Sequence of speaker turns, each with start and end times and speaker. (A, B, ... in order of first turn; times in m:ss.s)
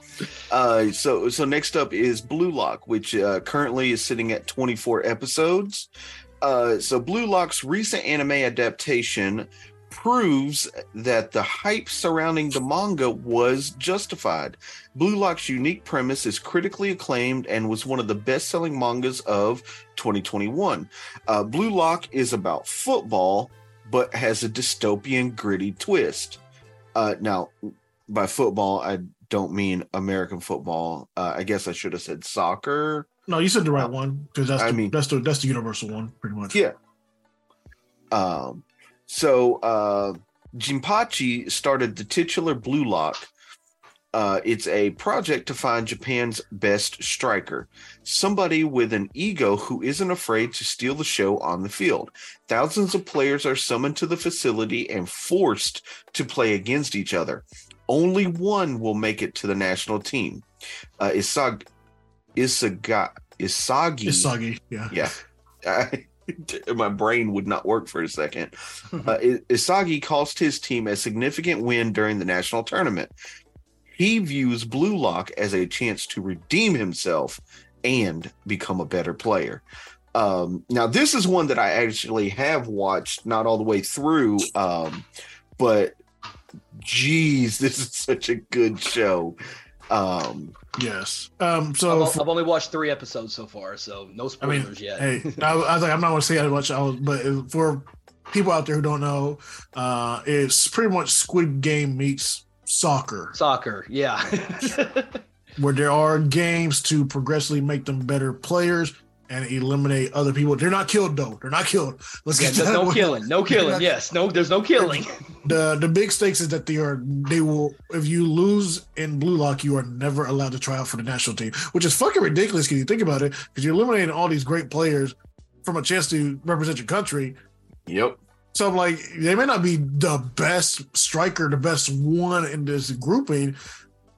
0:00.4-0:05.9 A
0:06.4-0:26.4 A
0:27.0-0:33.1 A
0:33.3-0:36.6 B
0:34.6-0:34.9 A
0:38.1-0:43.3 A
0:44.1-1:00.4 A
1:01.0-1:01.7 A
1:02.4-1:04.3 A
1:04.1-1:05.0 B
1:04.9-1:13.1 A
1:13.9-1:19.6 A
1:20.2-1:25.1 A
1:25.6-1:26.0 A
1:26.8-1:29.4 A
1:29.9-1:30.6 A
1:30.8-1:32.2 B
1:31.9-1:35.4 C
1:34.4-1:43.4 B
1:43.4-1:45.2 C
1:45.6-1:53.9 B
1:52.4-1:55.3 C
1:54.8-2:07.4 B
2:07.9-2:08.2 A
2:08.5-2:13.6 B